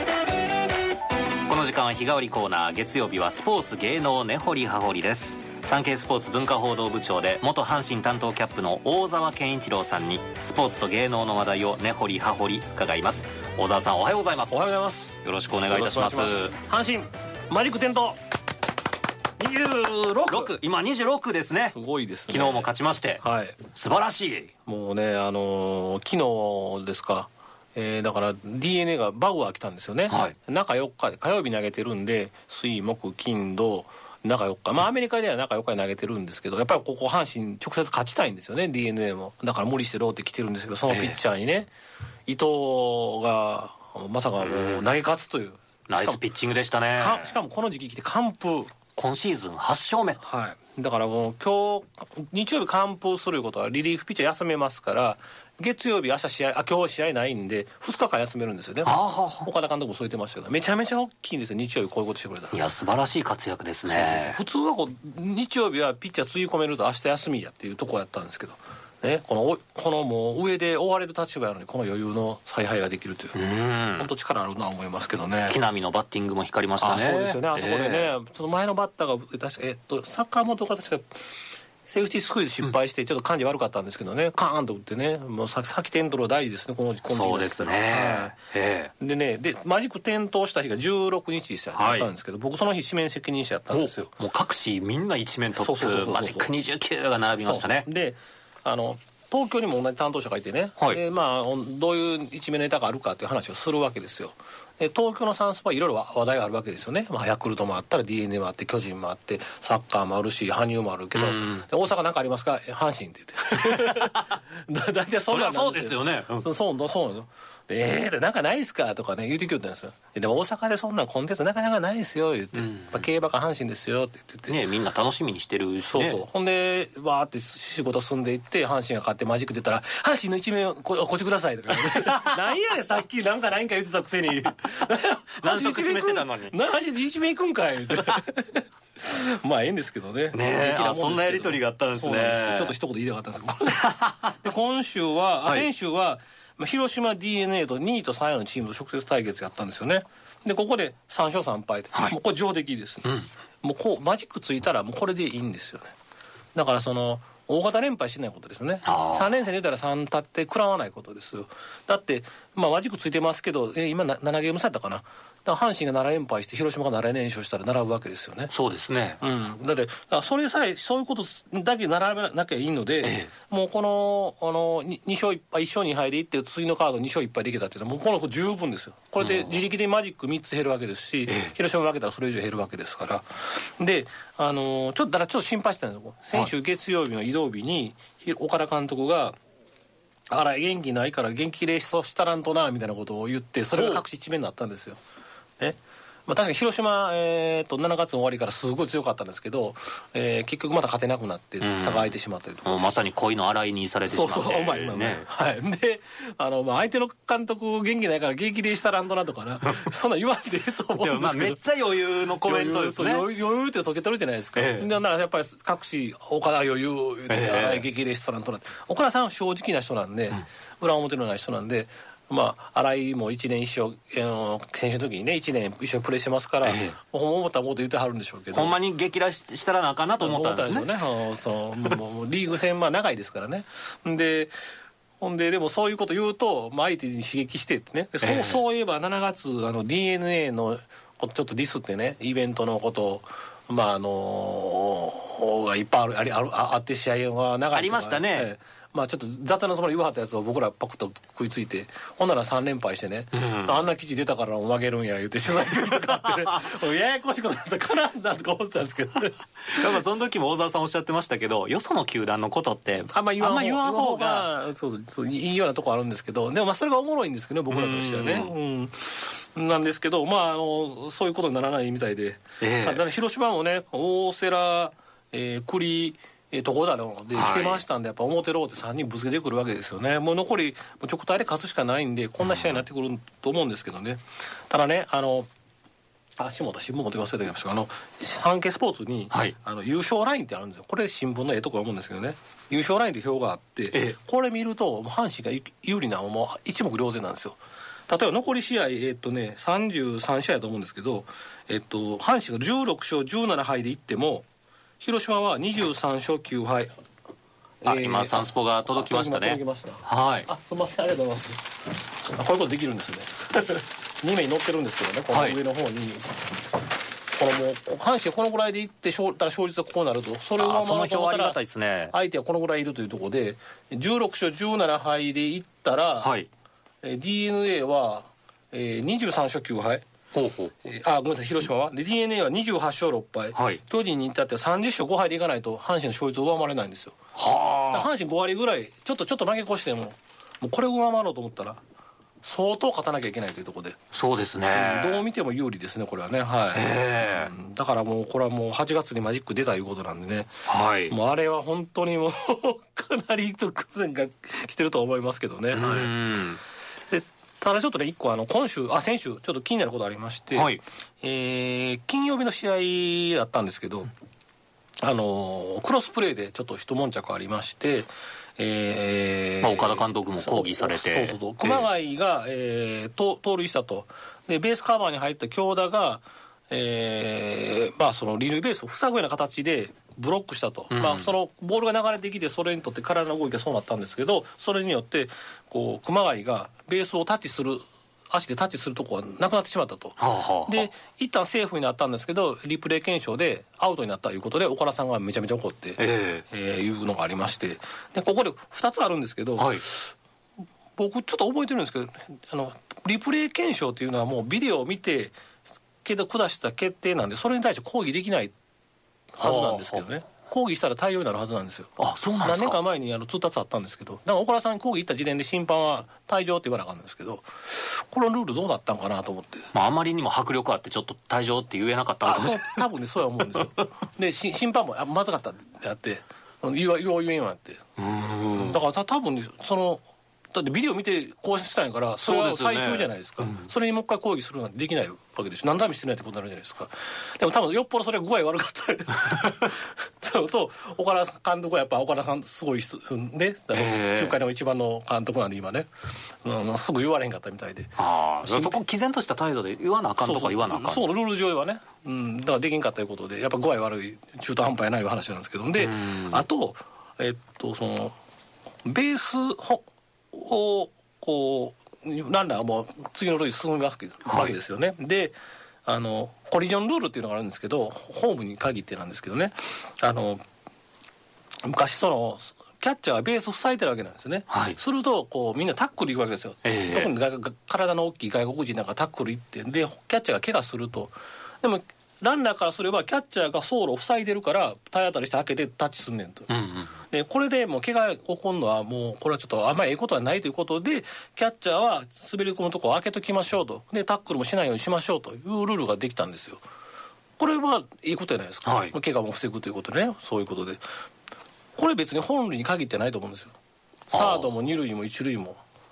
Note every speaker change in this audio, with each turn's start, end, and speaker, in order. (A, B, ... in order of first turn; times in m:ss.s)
0:01.5-0:14.6 A
0:14.5-0:15.2 B
0:15.2-0:16.5 A
0:15.7-0:18.2 B
0:19.4-0:20.6 B
0:20.3-0:21.8 A
0:21.6-0:23.6 B
0:22.3-0:24.5 A
0:24.6-0:41.7 B
0:30.1-0:30.3 A
0:40.9-0:41.2 A
0:42.3-0:46.2 B
0:44.4-0:44.9 A
0:45.9-0:47.4 A
0:47.0-0:48.7 B
0:48.9-0:50.2 A
0:50.2-1:02.7 B
0:58.8-0:59.5 A
1:02.5-1:04.4 A
1:03.9-1:13.4 B
1:13.3-1:14.1 A
1:14.0-1:15.6 B
1:15.5-1:18.1 A
1:16.8-1:21.2 B
1:21.8-1:28.4 B
1:27.1-1:28.9 A
1:29.0-1:34.1 B
1:31.8-1:32.1 A
1:33.7-1:37.9 A
1:35.6-1:36.5 B
1:37.4-2:04.6 B
1:51.1-1:51.7 A
1:53.6-1:54.4 A
1:55.3-1:56.4 A
2:02.5-2:03.0 A
2:04.5-2:06.2 A
2:05.9-2:35.9 B
2:12.0-2:12.2 A
2:15.4-2:16.6 A
2:20.3-2:22.7 A
2:23.8-2:24.4 A
2:36.5-2:48.5 B
2:38.8-2:39.3 A
2:48.5-2:49.2 A
2:49.2-3:09.4 B
2:53.0-2:53.3 A
2:59.2-2:59.6 A
3:01.3-3:01.5 A
3:10.3-3:15.0 B
3:13.7-3:14.0 A
3:15.6-3:22.9 B
3:21.6-3:22.1 A
3:22.6-3:25.3 A
3:24.1-3:31.6 B
3:30.9-3:33.3 A
3:32.4-3:48.8 B
3:34.5-3:35.0 A
3:37.3-3:37.8 A
3:46.6-3:47.0 A
3:48.5-3:50.9 A
3:50.2-3:54.5 B
3:55.2-4:20.0 B
3:58.2-3:58.6 A
4:07.7-4:08.5 A
4:13.3-4:13.7 A
4:15.9-4:16.1 A
4:19.7-4:24.5 A
4:23.0-4:45.5 B
4:27.7-4:28.5 A
4:32.6-4:33.0 A
4:37.3-4:37.8 A
4:42.4-4:42.8 A
4:46.4-4:57.6 B
4:58.1-5:04.4 B
5:05.0-5:06.9 B
5:07.8-5:11.6 B
5:07.8-5:10.5 A
5:12.3-5:16.4 B
5:15.3-5:15.6 A
5:17.3-5:21.6 B
5:20.6-5:22.1 A
5:22.1-5:26.3 B
5:26.2-5:26.5 A
5:27.0-5:30.0 B
5:30.3-5:30.7 A
5:30.8-5:37.2 B
5:33.5-5:33.8 A
5:37.4-5:38.1 A
5:37.9-5:41.8 B
5:42.4-5:44.0 B
5:44.1-5:45.2 A
5:44.7-5:50.5 B
5:46.7-5:47.5 A
5:50.7-5:51.1 A
5:51.1-5:56.1 B
5:55.7-5:56.6 A
5:57.1-6:04.1 B
6:00.5-6:00.8 A
6:05.0-6:40.1 B
6:09.6-6:11.9 A
6:20.9-6:21.3 A
6:30.2-6:30.9 A
6:36.0-6:36.4 A
6:39.6-6:39.8 A
6:41.0-6:45.4 B
6:46.0-6:48.5 B
6:49.3-6:59.7 B
6:49.4-6:50.0 A
6:52.0-6:52.8 A
6:59.7-7:02.8 A
7:02.2-7:07.8 B
7:03.5-7:03.8 A
7:08.0-7:08.8 A
7:08.5-7:25.9 B
7:12.2-7:13.7 A
7:23.7-7:24.4 A
7:26.4-7:28.8 B
7:28.0-7:31.0 A
7:30.2-7:38.1 B
7:35.8-7:36.4 A
7:38.8-7:50.4 B
7:44.2-7:44.5 A
7:51.6-8:06.5 B
7:54.5-7:54.8 A
7:56.6-7:57.1 A
8:06.5-8:06.9 A
8:07.1-8:16.6 B
8:17.4-8:20.8 B
8:18.6-8:18.9 A
8:21.8-8:23.5 B
8:24.1-8:24.5 A
8:24.1-8:25.6 B